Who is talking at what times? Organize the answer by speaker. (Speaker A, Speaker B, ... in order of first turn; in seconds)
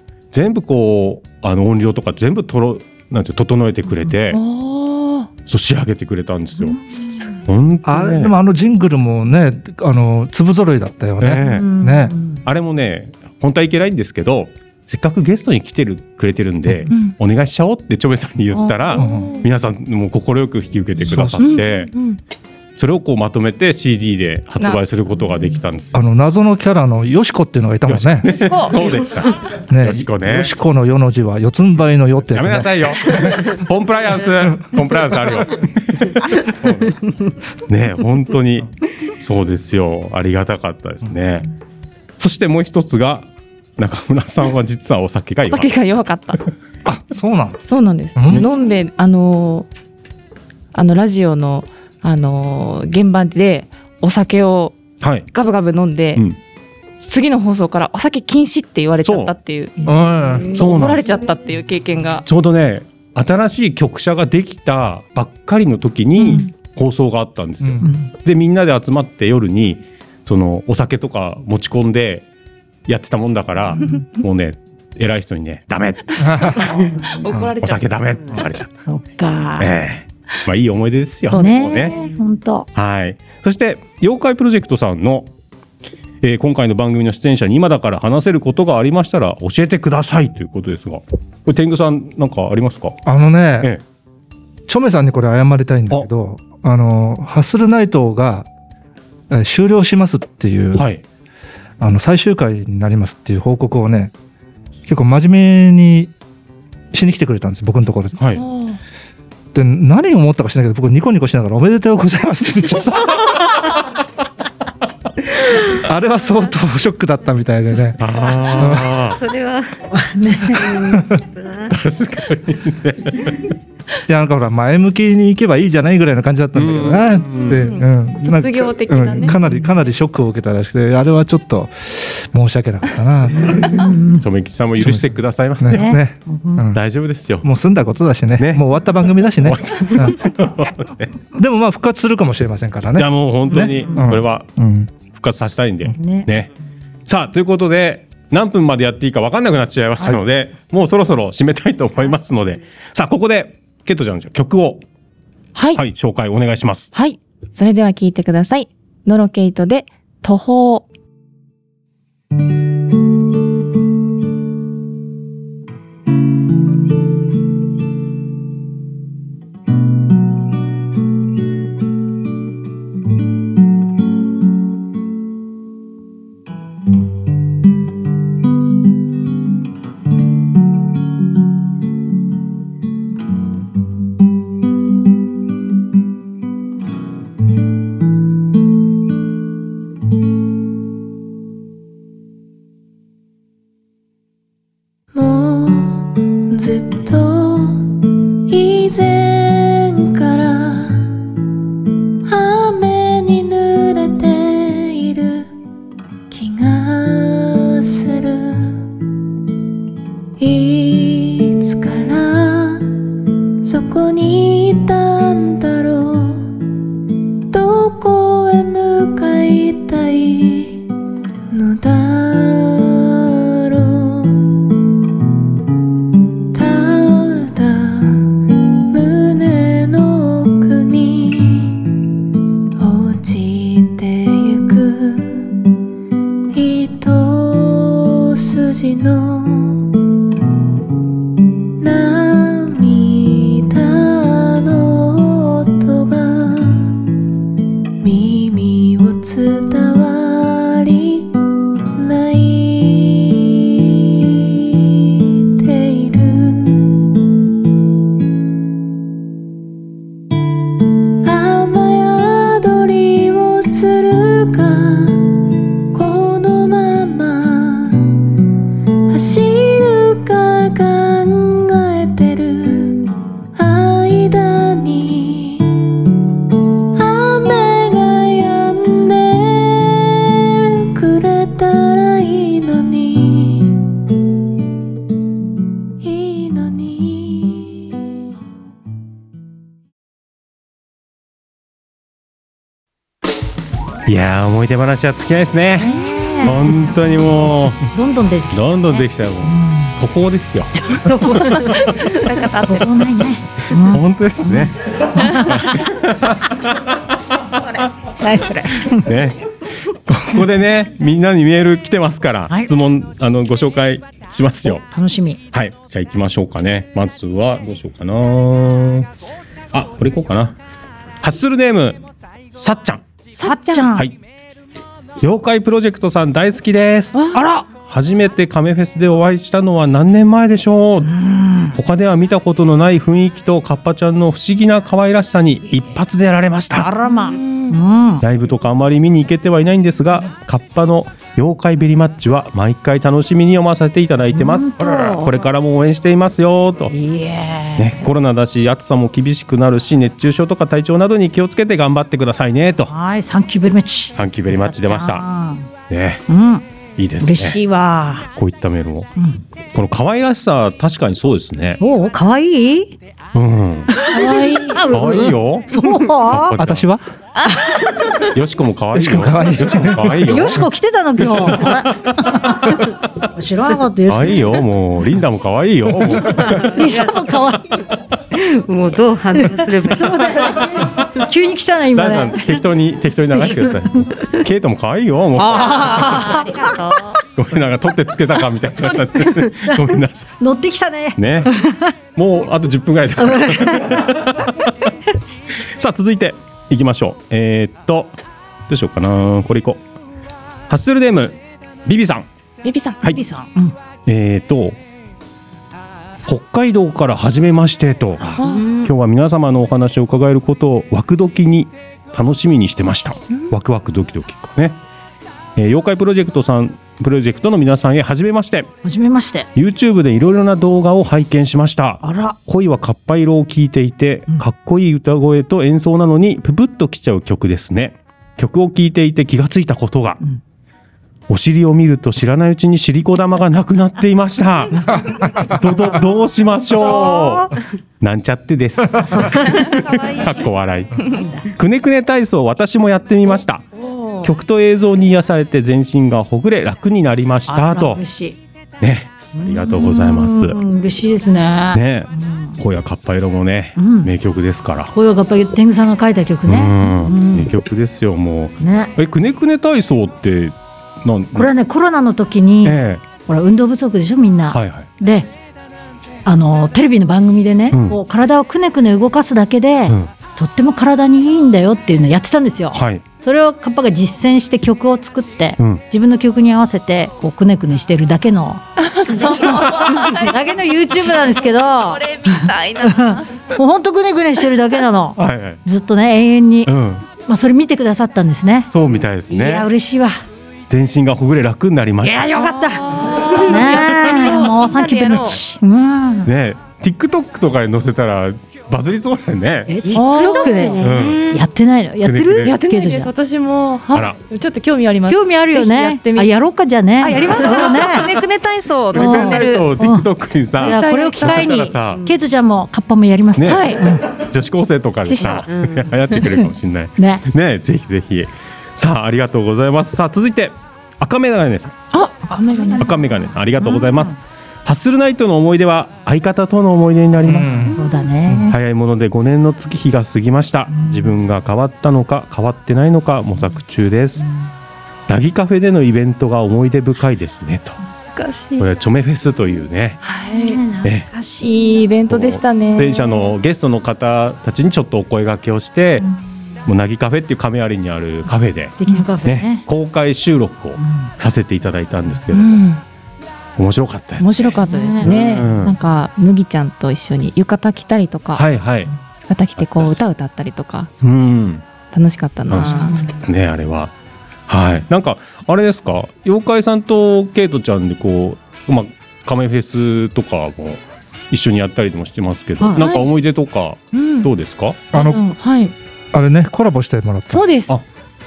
Speaker A: 0.3-4.4, 5.5-6.8, 7.5-8.3, 11.2-11.7, 12.4-21.9, 22.8-26.0, 27.9-30.5, 32.3-37.0, 37.7-41.5, 42.2-45.8, 55.0-55.3, 59.0-59.3, 60.6-61.0, 62.3-72.3, 72.9-77.0, 77.6-78.7, 79.6-82.0, 82.8-85.3, 86.2-93.0, 100.8-101.0, 108.2-108.4, 118.0-119.2, 121.7-123.5, 126.5-127.7, 134.2-136.0, 136.7-137.5, 138.4-138.7, 139.4-141.1, 143.0-144.5, 145.0-146.5, 147.1-154.8, 155.8-156.9, 294.1-297.9, 298.5-301.3, 303.7-307.0, 308.9-314.8, 315.5-319.1, 319.7-320.6, 321.2-322.1, 322.6-323.0, 325.2-327.2, 327.9-331.1, 331.7-336.9, 338.2-346.9, 347.8-352.9, 354.1-355.2, 355.9-356.3, 357.0-357.6, 358.3-359.1, 359.7-361.8, 363.3-363.9, 364.9-366.9, 368.2-370.7, 374.1-376.7, 381.9-386.3, 387.4-390.3, 391.2-391.5, 392.1-394.5, 395.8-398.2, 398.7-399.8, 400.7-402.3, 404.1-404.8, 406.3-408.2, 408.8-414.8, 415.6-418.7, 419.6-430.2, 431.3-443.7, 444.2-448.0, 448.8-450.6, 451.7-454.9, 456.5-461.5, 462.6-463.0, 464.5-464.9, 467.7-468.0, 472.7-473.0, 479.2-480.0, 485.2-485.6, 486.7-487.1, 488.7-489.7, 490.7-492.3, 496.2-499.9, 500.8-501.2, 502.0-502.6, 503.9-504.2, 508.9-512.0, 513.4-521.8, 522.8-527.7, 528.5-534.2, 535.1-537.8, 538.6-540.0, 542.1-546.1, 546.7-552.6, 553.6-555.8, 558.4-558.9, 559.6-560.0, 561.0-561.6, 562.5-563.9, 564.5-574.8
Speaker B: 4.3-5.3, 16.9-17.1, 18.6-19.5, 21.4-22.2, 28.3-28.9, 45.5-46.5, 47.7-49.7, 50.7-54.8, 55.3-56.2, 57.0-59.8, 60.5-62.2, 66.2-66.5, 76.6-78.5, 81.3-82.1, 108.4-108.8, 127.5-129.4, 155.6-155.8, 156.9-160.9, 301.7-302.9, 323.4-323.9, 327.1-327.4, 337.0-337.8, 344.8-345.3, 364.1-364.9, 402.6-403.0, 408.4-408.7, 478.8-480.4, 481.7-483.4, 492.3-495.4, 499.9-501.4, 502.4-506.3, 507.0-509.8, 510.6-511.7, 513.5-513.9, 515.0-515.4, 521.9-522.9, 538.1-538.7, 540.0-540.6, 541.4-543.3, 552.3-552.8, 554.2-558.5, 559.3-560.9, 561.9-563.1, 572.8-573.1, 573.9-574.3, 575.4-575.7, 577.3-577.7
Speaker C: 6.6-7.4, 11.4-12.4, 67.8-68.1, 78.8-79.7, 81.3-82.7, 119.9-120.9, 133.5-134.2, 135.7-136.7, 145.9-146.3, 295.8-299.9, 300.8-305.9, 308.2-309.1, 314.7-315.4, 323.3-324.1, 327.3-327.7, 331.1-331.8, 336.7-338.2, 344.3-344.8, 346.9-347.9, 352.9-355.7, 356.3-356.7, 357.2-358.3, 359.2-359.4, 361.8-363.0, 363.9-366.6, 367.5-368.2, 370.3-374.6, 376.0-377.8, 379.4-382.6, 383.3-384.1, 385.4-387.0, 390.4-391.9, 393.2-394.3, 403.1-403.8, 408.2-408.9, 418.8-419.5, 422.0-422.4, 436.8-437.5, 439.0-440.3, 441.1-441.5, 443.8-444.3, 447.5-448.4, 449.4-452.6, 453.8-454.1, 454.9-457.5, 458.6-458.9, 461.3-465.3, 466.2-488.7, 489.3-490.2, 492.0-496.3, 499.7-503.1, 505.1-508.1, 508.9-514.1, 517.0-517.2, 522.3-524.1, 527.3-528.6, 530.7-531.2, 534.2-534.5, 540.2-541.9, 546.0-546.3, 548.7-549.6, 550.8-551.1, 554.5-555.6, 562.6-563.2, 572.6-572.9, 574.9-575.4
Speaker D: 7.8-12.2, 19.0-19.4, 21.0-21.5, 25.9-28.3, 29.7-33.4, 46.9-47.6, 48.2-48.5, 59.9-60.6, 67.6-67.9, 76.2-76.7, 93.0-93.7, 94.7-98.5, 99.3-100.8, 101.8-104.1, 104.9-106.1, 106.9-108.2, 109.5-113.4, 115.7-119.0, 120.7-121.2, 124.1-133.8, 134.8-136.8, 137.4-140.3, 141.3-144.9, 366.6-367.0, 368.9-370.7, 434.9-435.8, 527.2-528.5, 574.9-575.2, 576.1-577.5
Speaker E: 119.2-119.9, 120.5-121.7, 376.3-377.1, 378.3-380.5, 500.1-501.1, 511.9-512.1, 515.5-515.9
Speaker F: 195.1-197.9, 198.5-201.1, 202.2-205.5, 206.3-208.8, 210.4-212.9, 213.6-216.5, 217.5-220.8, 221.5-224.5, 226.5-228.3, 228.9-231.8, 232.8-235.5, 236.5-239.8, 241.8-246.9, 248.0-251.3, 251.9-256.9, 261.2-265.2, 265.9-268.1, 269.1-275.8, 277.0-283.8, 286.0-287.9